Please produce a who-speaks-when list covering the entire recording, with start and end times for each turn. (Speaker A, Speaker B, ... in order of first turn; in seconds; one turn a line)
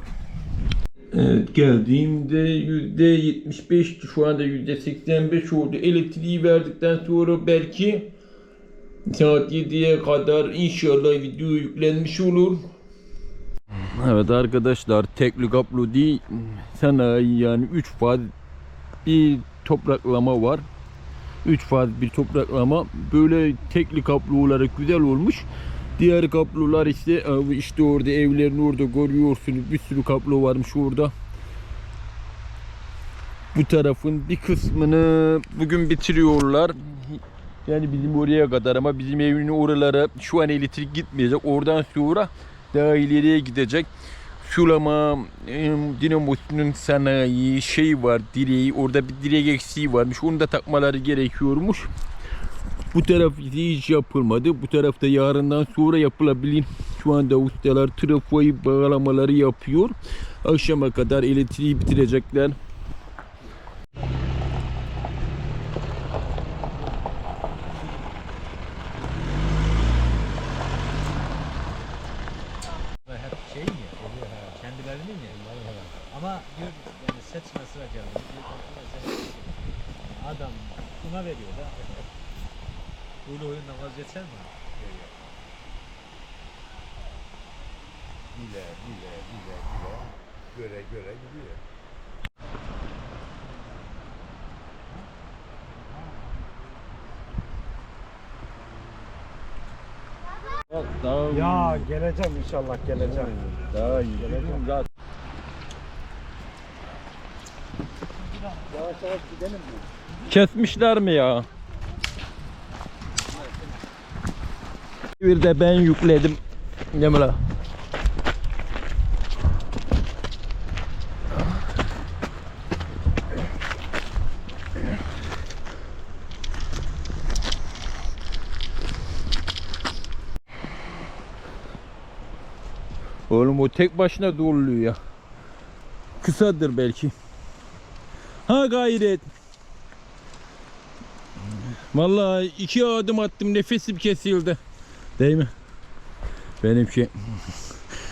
Speaker A: 1.1-8.1
Speaker A: 9.1-12.7
Speaker A: 13.9-18.3
Speaker A: 19.0-20.6
Speaker A: 21.4-31.1
Speaker A: 33.5-43.9
Speaker A: 44.4-51.9
Speaker A: 52.9-62.6
Speaker B: 73.1-79.5
Speaker B: 80.2-82.0
Speaker B: 83.3-84.5
Speaker C: 88.4-91.5
Speaker A: 100.7-101.9
Speaker B: 101.3-103.3
Speaker A: 102.9-104.8
Speaker B: 108.7-109.4
Speaker A: 110.2-111.5
Speaker A: 115.2-116.4
Speaker A: 116.9-117.4
Speaker A: 133.3-135.0
Speaker A: 136.2-137.1
Speaker A: 138.5-139.3
Speaker A: 141.9-144.6
Speaker A: 145.2-145.5
Speaker A: 146.6-147.5